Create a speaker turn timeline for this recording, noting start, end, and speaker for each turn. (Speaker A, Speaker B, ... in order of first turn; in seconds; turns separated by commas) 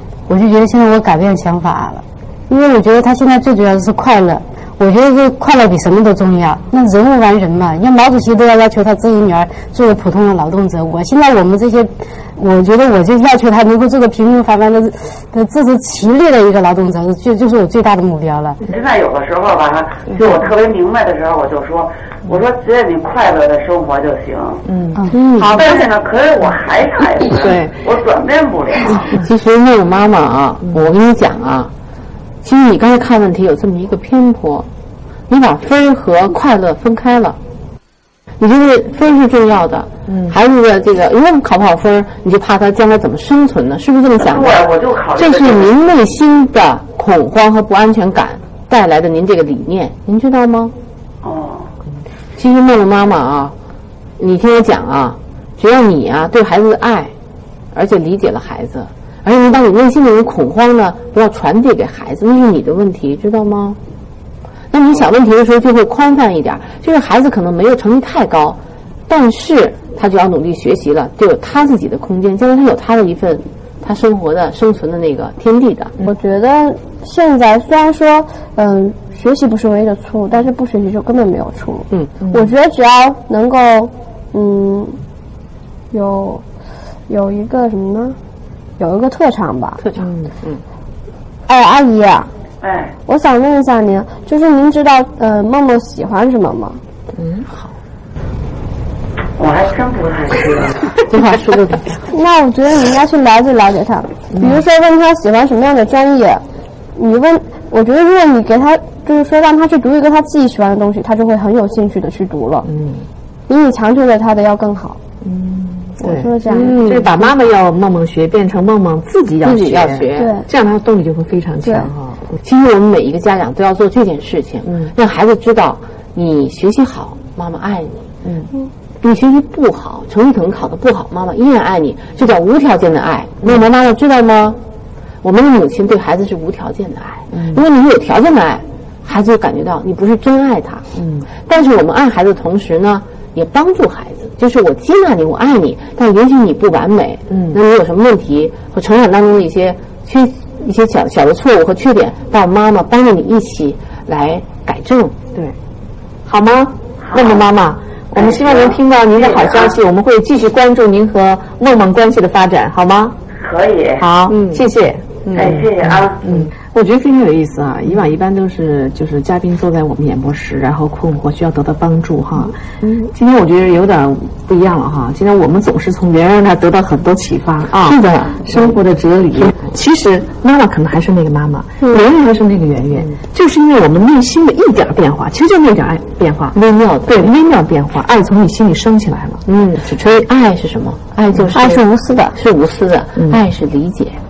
Speaker A: 0.3-18.6, Speaker B: 18.7-24.6, Speaker C: 24.7-25.9, Speaker D: 25.1-25.6, Speaker B: 25.6-29.2, Speaker C: 27.3-27.7, Speaker D: 29.1-31.7, Speaker D: 32.4-34.7, Speaker D: 35.3-37.4, Speaker D: 38.4-50.7, Speaker C: 40.1-40.3, Speaker B: 44.2-45.7, Speaker B: 51.2-51.7, Speaker D: 52.4-53.5, Speaker D: 54.2-57.1, Speaker D: 57.7-63.8, Speaker D: 64.7-76.0, Speaker E: 76.0-85.0, Speaker D: 81.9-82.5, Speaker E: 85.9-86.4, Speaker E: 87.1-88.2, Speaker E: 88.8-89.8, Speaker D: 89.8-90.6, Speaker E: 91.5-92.3, Speaker B: 92.6-92.9, Speaker E: 93.0-96.8, Speaker D: 97.1-97.7, Speaker B: 99.3-100.9, Speaker D: 101.1-102.0, Speaker E: 102.1-106.4, Speaker E: 106.9-112.7, Speaker C: 112.6-113.1, Speaker E: 113.5-115.0, Speaker C: 115.2-122.3, Speaker E: 116.0-116.8, Speaker D: 116.5-117.2, Speaker D: 119.4-120.3, Speaker E: 120.2-120.5, Speaker E: 121.6-121.9, Speaker D: 122.4-128.1, Speaker C: 124.6-124.9, Speaker C: 128.2-128.5, Speaker D: 129.0-134.6, Speaker D: 135.2-155.1, Speaker C: 137.3-137.6, Speaker C: 140.9-141.3, Speaker C: 147.3-147.6, Speaker C: 156.2-163.1, Speaker B: 157.0-157.5, Speaker B: 158.1-159.8, Speaker B: 163.3-164.0, Speaker C: 164.0-189.4, Speaker D: 164.3-164.6, Speaker D: 165.2-165.6, Speaker B: 165.4-166.2, Speaker D: 177.7-178.8, Speaker D: 186.5-187.3, Speaker D: 189.4-194.2, Speaker E: 191.5-192.3